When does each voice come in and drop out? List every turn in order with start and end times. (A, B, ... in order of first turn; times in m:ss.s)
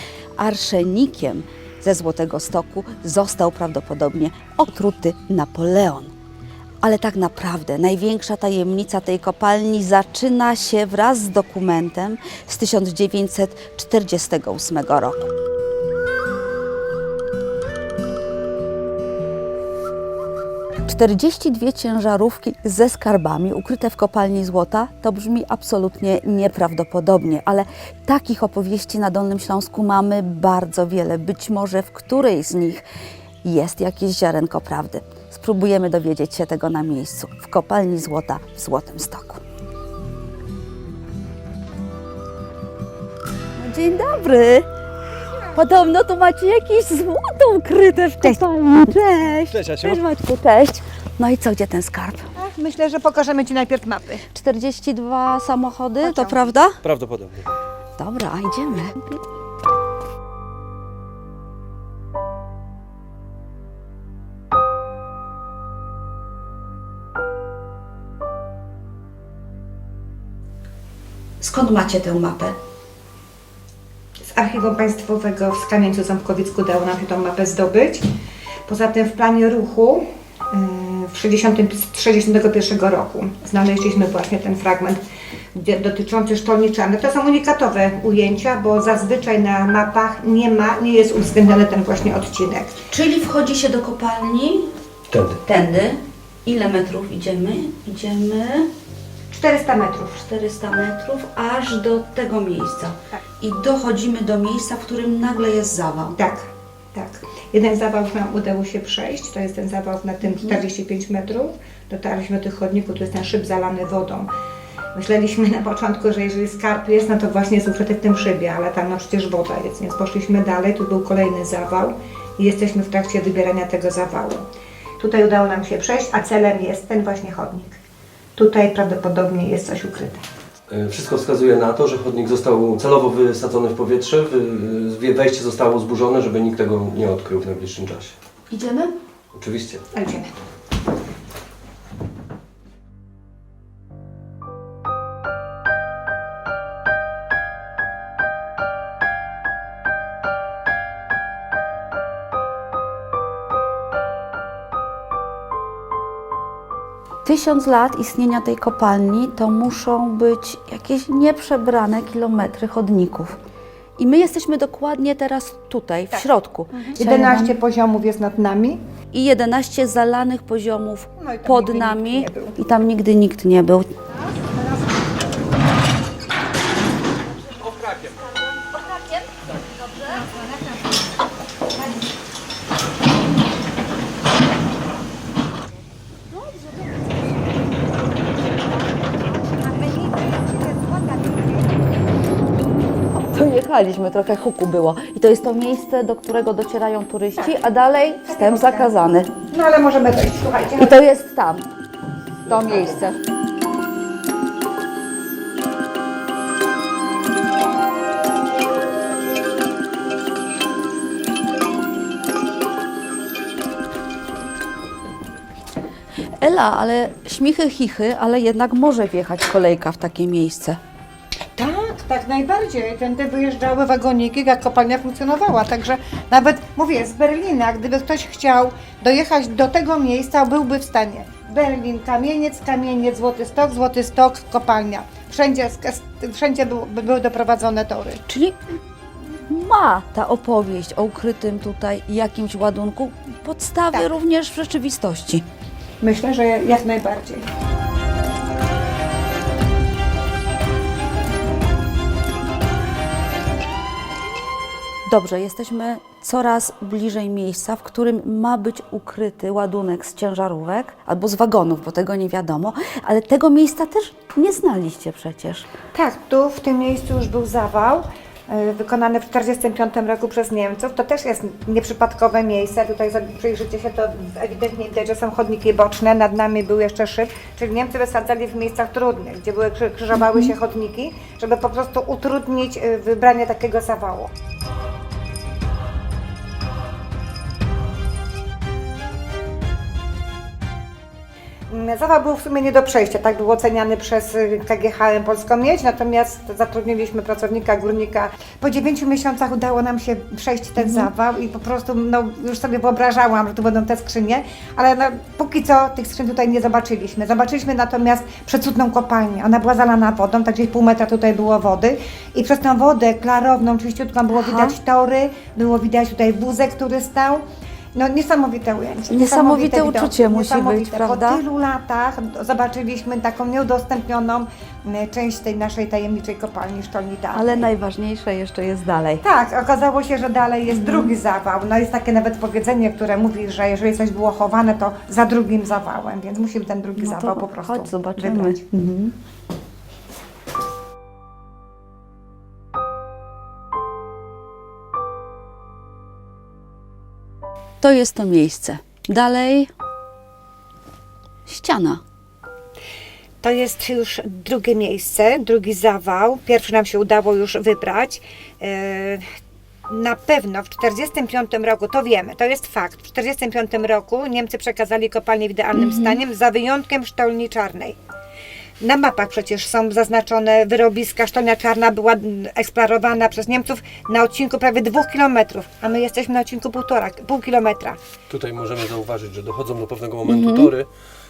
0:00.4-0:06.1 A
0:06.8-0:15.3 A
0:20.8-0:32.8 A
0:33.4-0:39.4 A
0:43.6-0:44.7 A
0:45.5-0:52.3 A
0:49.5-0:50.0 B
0:52.4-0:54.2 C
0:54.3-0:56.8 A
0:56.0-0:56.5 C
0:56.8-0:57.5 B
0:58.0-0:59.2 A
1:11.4-1:12.5 A
1:14.3-1:18.0 C
1:18.6-1:25.0 C
1:25.5-1:32.8 C
1:32.9-1:34.7 A
1:35.1-1:35.4 B
1:35.4-1:38.7 A
1:39.3-1:40.2 C
1:40.2-1:46.2 A
1:46.2-1:54.3 C
1:54.9-2:04.4 C
2:05.0-2:07.8 C
2:08.4-2:10.2 C
2:10.7-2:18.1 B
2:18.5-2:18.9 A
2:19.3-2:19.8 B
2:19.9-2:20.4 C
2:37.2-2:43.4 A
2:44.0-2:47.6 A
2:46.1-2:48.8 C
2:49.1-2:53.9 A
2:51.2-2:52.6 C
2:54.4-2:55.2 C
2:57.6-2:59.4 A
3:00.0-3:01.2 C
3:01.8-3:02.0 C
3:09.4-3:11.8 C
3:13.1-3:19.3 A
3:17.4-3:17.6 C
3:18.2-3:18.9 C
3:19.5-3:20.9 C
3:20.8-3:21.7 A
3:22.4-3:23.2 A
3:36.4-3:40.8 A
3:41.6-3:58.2 C
3:58.3-3:58.6 A
3:59.4-4:05.4 A
4:06.0-4:07.4 C
4:15.1-4:25.7 A
4:25.9-4:44.3 C
4:40.1-4:40.5 A
4:51.7-5:17.4 C
5:00.8-5:01.1 A
5:14.3-5:14.7 A
5:17.9-5:27.7 C
5:19.1-5:21.4 A
5:27.3-5:29.2 A
5:29.2-5:38.6 C
5:30.7-5:31.1 A
5:37.0-5:39.1 A
5:47.8-5:49.7 A
5:51.5-5:52.0 A
5:53.4-5:59.2 C
5:59.9-6:08.0 C
6:05.7-6:06.2 A
6:08.8-6:18.0 C
6:18.3-6:20.9 B
6:20.2-6:20.7 A